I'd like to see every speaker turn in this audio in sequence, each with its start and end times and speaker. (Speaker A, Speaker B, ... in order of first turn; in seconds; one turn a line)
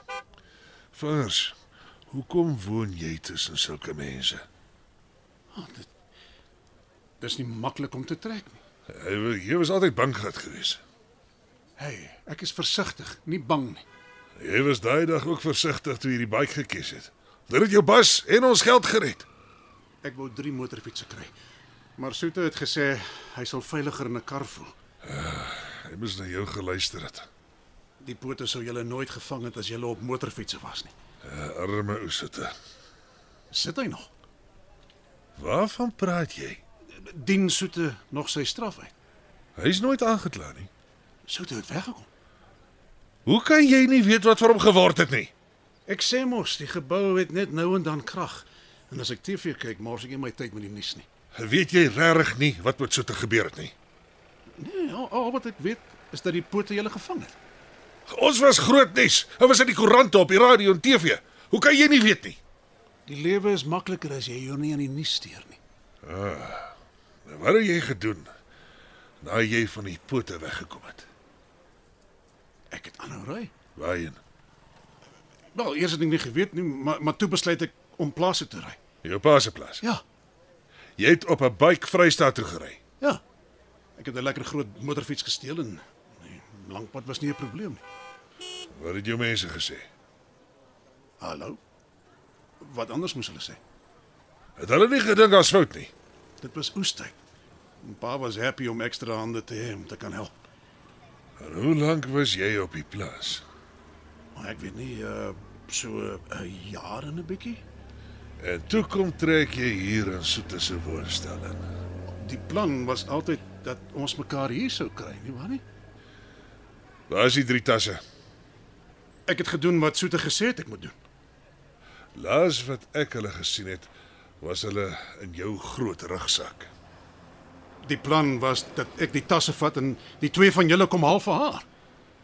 Speaker A: 0.9-1.5
Speaker A: 2.1-4.4
Speaker B: 5.5-5.9
Speaker B: 7.2-8.6
Speaker A: 8.9-10.8
Speaker B: 11.8-13.8
Speaker A: 14.4-19.2
Speaker B: 20.0-21.3
Speaker B: 22.0-24.7
Speaker A: 25.0-27.3
Speaker B: 28.0-30.9
Speaker A: 31.2-32.5
Speaker B: 33.5-34.1
Speaker A: 35.4-36.6
Speaker B: 37.0-38.9
Speaker A: 39.5-40.7
Speaker B: 41.2-42.1
Speaker A: 43.2-45.3
Speaker B: 45.9-51.0
Speaker A: 51.3-53.7
Speaker B: 54.6-57.4
Speaker A: 58.1-62.4
Speaker B: 63.1-65.6
Speaker A: 66.0-66.7
Speaker A: 67.2-68.3
Speaker A: 69.2-71.0
Speaker B: 72.7-73.5
Speaker A: 73.8-74.2
Speaker B: 75.5-78.8
Speaker A: 79.0-79.8
Speaker A: 81.0-82.8
Speaker B: 84.0-87.8
Speaker A: 88.7-89.9
Speaker B: 91.2-91.6
Speaker B: 92.6-93.6
Speaker A: 94.6-95.9
Speaker B: 96.4-97.2
Speaker B: 97.8-100.3
Speaker A: 101.4-103.4
Speaker B: 104.3-107.6
Speaker A: 108.4-111.7
Speaker B: 112.1-115.6
Speaker A: 117.1-118.0
Speaker B: 119.3-120.9
Speaker A: 122.1-126.7
Speaker B: 127.8-131.7